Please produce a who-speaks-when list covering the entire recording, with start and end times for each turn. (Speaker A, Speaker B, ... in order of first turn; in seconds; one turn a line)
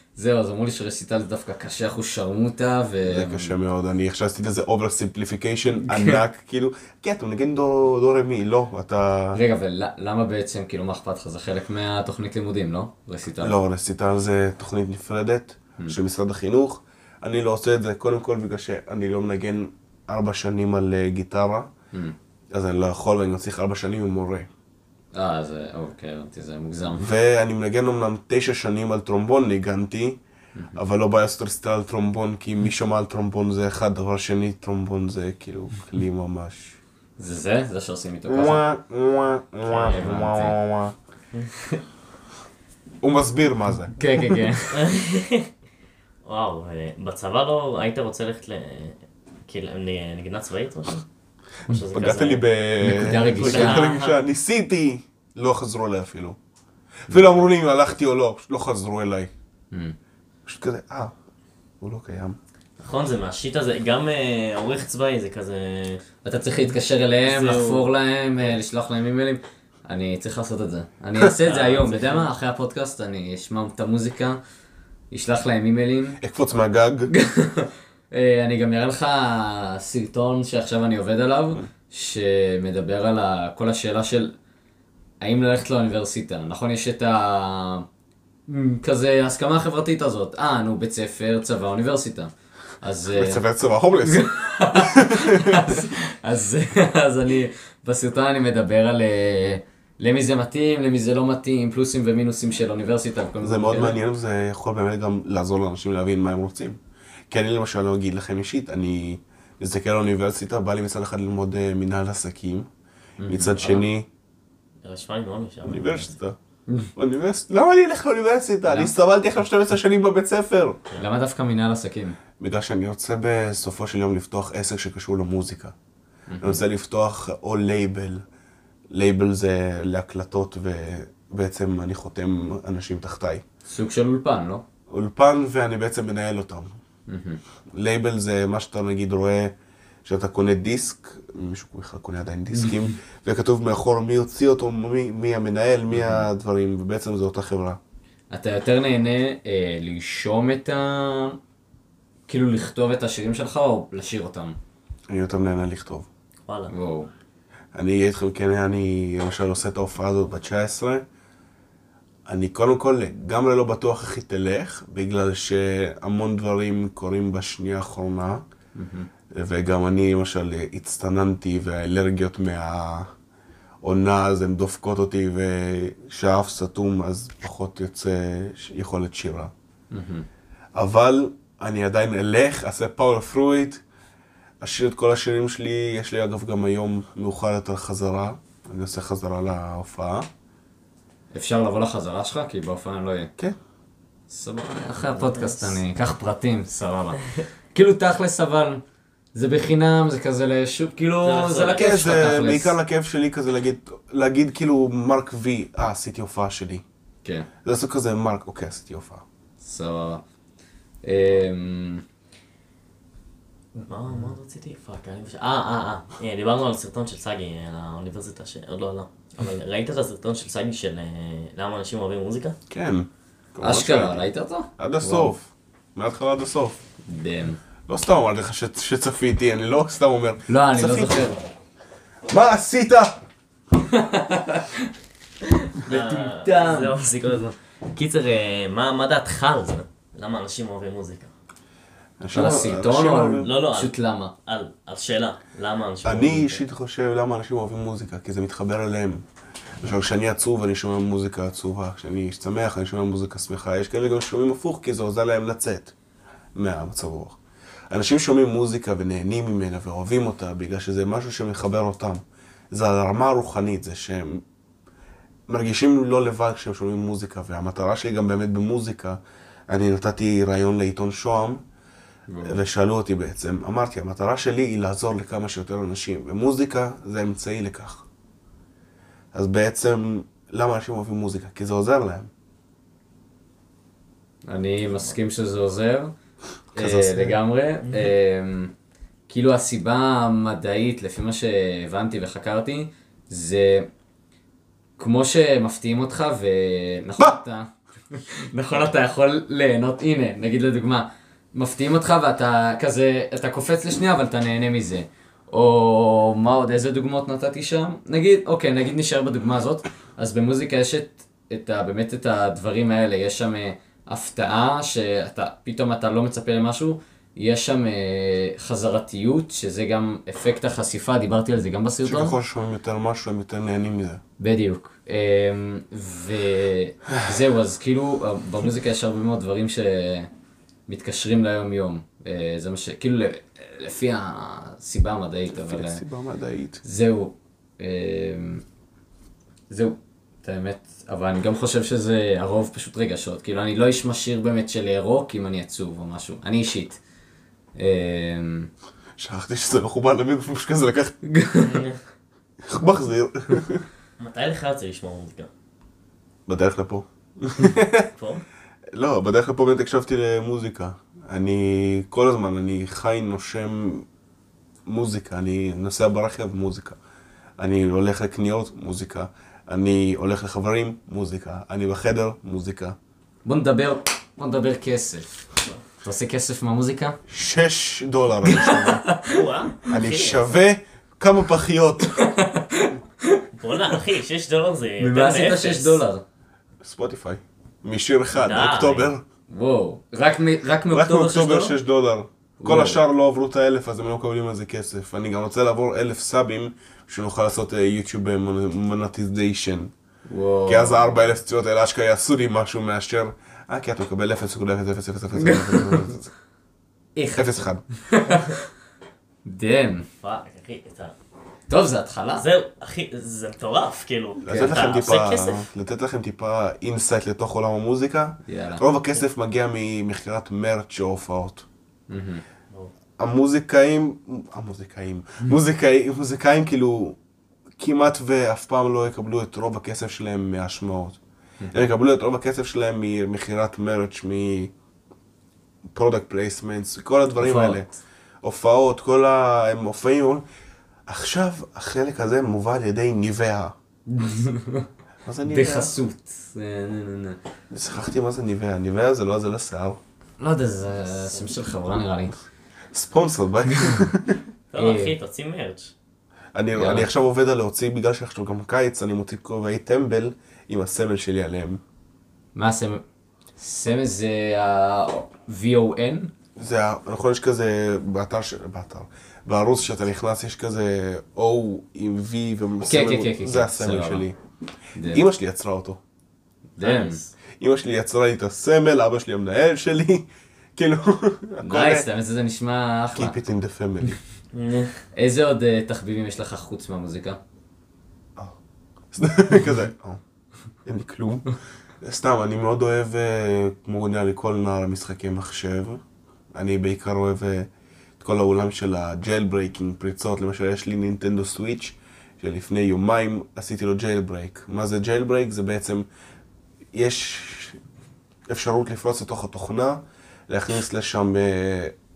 Speaker A: 0.2-3.5
Speaker B: 3.0-9.4
Speaker A: 5.8-6.2
Speaker A: 9.3-13.6
Speaker B: 13.4-21.7
Speaker B: 22.5-24.5
Speaker A: 25.1-27.1
Speaker B: 27.0-30.2
Speaker A: 30.6-30.8
Speaker B: 30.8-36.8
Speaker A: 37.2-38.6
Speaker B: 38.3-41.0
Speaker C: 39.7-40.0
Speaker A: 39.7-40.6
Speaker C: 41.3-41.8
Speaker B: 43.0-44.5
Speaker A: 44.0-44.9
Speaker C: 44.7-45.5
Speaker C: 46.2-51.0
Speaker C: 51.7-52.5
Speaker B: 51.9-56.4
Speaker A: 52.8-53.9
Speaker C: 53.4-54.2
Speaker B: 57.1-59.3
Speaker B: 60.5-61.1
Speaker B: 61.8-62.4
Speaker C: 62.8-66.0
Speaker A: 66.2-74.4
Speaker C: 67.2-67.9
Speaker C: 71.4-72.3
Speaker A: 75.1-76.2
Speaker B: 76.2-77.1
Speaker A: 77.1-84.3
Speaker A: 85.2-87.9
Speaker A: 88.5-93.4
Speaker B: 93.1-95.8
Speaker A: 94.0-104.0
Speaker B: 103.4-106.8
Speaker B: 107.3-112.7
Speaker A: 113.2-113.9
Speaker B: 113.3-114.1
Speaker C: 114.8-116.1
Speaker B: 115.7-116.4
Speaker B: 117.0-120.8
Speaker A: 118.7-118.9
Speaker A: 121.0-122.2
Speaker B: 122.4-125.7
Speaker A: 126.3-126.6
Speaker B: 126.4-128.2
Speaker B: 128.9-133.4
Speaker A: 133.7-134.7
Speaker B: 134.9-136.7
Speaker A: 137.1-137.4
Speaker B: 137.7-139.5
Speaker B: 140.1-147.8
Speaker A: 145.9-146.3
Speaker A: 148.3-151.4
Speaker A: 152.3-154.6
Speaker B: 155.1-156.1
Speaker C: 156.5-156.7
Speaker A: 156.7-157.1
Speaker B: 157.8-161.0
Speaker B: 162.3-168.4
Speaker A: 168.8-169.1
Speaker B: 169.3-173.1
Speaker B: 173.8-179.5
Speaker A: 179.9-180.3
Speaker B: 180.8-183.8
Speaker B: 184.6-190.3
Speaker A: 191.3-193.3
Speaker A: 194.3-197.2
Speaker C: 195.1-195.8
Speaker A: 197.7-198.8
Speaker A: 199.3-202.8
Speaker C: 201.2-202.0
Speaker B: 201.7-206.8
Speaker B: 207.6-209.2
Speaker A: 209.6-210.2
Speaker A: 211.0-212.0
Speaker C: 213.8-222.6
Speaker B: 222.7-224.2
Speaker A: 223.6-225.3
Speaker B: 224.8-226.8
Speaker A: 227.1-227.6
Speaker B: 227.9-231.4
Speaker A: 230.5-231.4
Speaker B: 232.3-233.2
Speaker A: 233.9-234.9
Speaker C: 235.8-241.3
Speaker A: 235.9-237.0
Speaker B: 242.2-243.5
Speaker A: 242.3-244.3
Speaker C: 243.4-243.9
Speaker C: 244.5-246.6
Speaker B: 246.0-249.2
Speaker B: 249.8-255.9
Speaker B: 256.6-257.4
Speaker B: 257.9-264.4
Speaker B: 265.5-269.2
Speaker B: 269.7-271.6
Speaker A: 272.3-272.6
Speaker B: 272.4-278.1
Speaker B: 279.3-282.3
Speaker A: 284.5-286.1
Speaker A: 286.8-288.7
Speaker B: 286.8-287.4
Speaker C: 287.8-288.1
Speaker A: 289.3-293.9
Speaker A: 295.0-322.4
Speaker B: 322.1-324.2
Speaker A: 324.4-330.3
Speaker A: 330.9-336.0
Speaker B: 335.5-336.8
Speaker A: 336.8-338.6
Speaker A: 339.7-347.0
Speaker A: 347.8-348.7
Speaker B: 349.2-351.2
Speaker A: 351.3-351.8
Speaker C: 351.6-352.0
Speaker B: 352.6-353.9
Speaker C: 354.2-355.5
Speaker B: 356.5-358.1
Speaker C: 358.2-358.4
Speaker B: 358.9-364.1
Speaker B: 364.9-367.0
Speaker B: 367.6-372.9
Speaker A: 373.5-375.5
Speaker A: 376.0-377.2
Speaker B: 377.3-379.1
Speaker A: 378.5-379.3
Speaker C: 379.2-380.6
Speaker B: 379.9-382.2
Speaker A: 382.2-383.4
Speaker C: 383.6-386.0
Speaker A: 385.0-386.2
Speaker B: 386.8-389.2
Speaker C: 388.4-389.1
Speaker A: 389.5-391.8
Speaker B: 390.9-399.9
Speaker A: 392.6-393.0
Speaker A: 400.3-401.2
Speaker B: 400.7-406.3
Speaker A: 405.4-406.1
Speaker A: 407.2-408.6
Speaker B: 407.3-407.8
Speaker A: 409.4-410.1
Speaker C: 410.2-411.1
Speaker A: 411.7-412.5
Speaker C: 412.4-415.7
Speaker B: 414.4-421.7
Speaker A: 414.5-414.8
Speaker A: 418.5-418.8
Speaker A: 422.1-422.4
Speaker B: 423.2-427.2
Speaker B: 427.8-431.2
Speaker A: 431.6-431.9
Speaker B: 431.7-434.7
Speaker B: 435.9-437.9
Speaker A: 437.4-438.0
Speaker B: 438.4-440.4
Speaker B: 441.1-443.7
Speaker A: 444.1-444.9
Speaker B: 445.2-445.9
Speaker A: 445.4-447.4
Speaker B: 447.7-450.0
Speaker A: 450.4-452.4
Speaker B: 452.9-454.4
Speaker C: 454.7-455.9
Speaker A: 454.8-455.1
Speaker B: 456.6-461.8
Speaker A: 456.8-457.1
Speaker A: 462.6-463.0
Speaker A: 463.6-466.3
Speaker B: 466.6-474.4
Speaker A: 472.8-474.2
Speaker A: 475.0-475.2
Speaker B: 475.1-476.0
Speaker A: 476.8-477.2
Speaker C: 476.8-477.3
Speaker B: 477.6-482.1
Speaker A: 481.6-483.4
Speaker B: 483.1-484.2
Speaker C: 484.5-485.0
Speaker A: 485.1-487.4
Speaker B: 489.1-490.2
Speaker B: 490.9-496.0
Speaker B: 496.5-506.1
Speaker B: 506.9-507.8
Speaker B: 508.5-511.9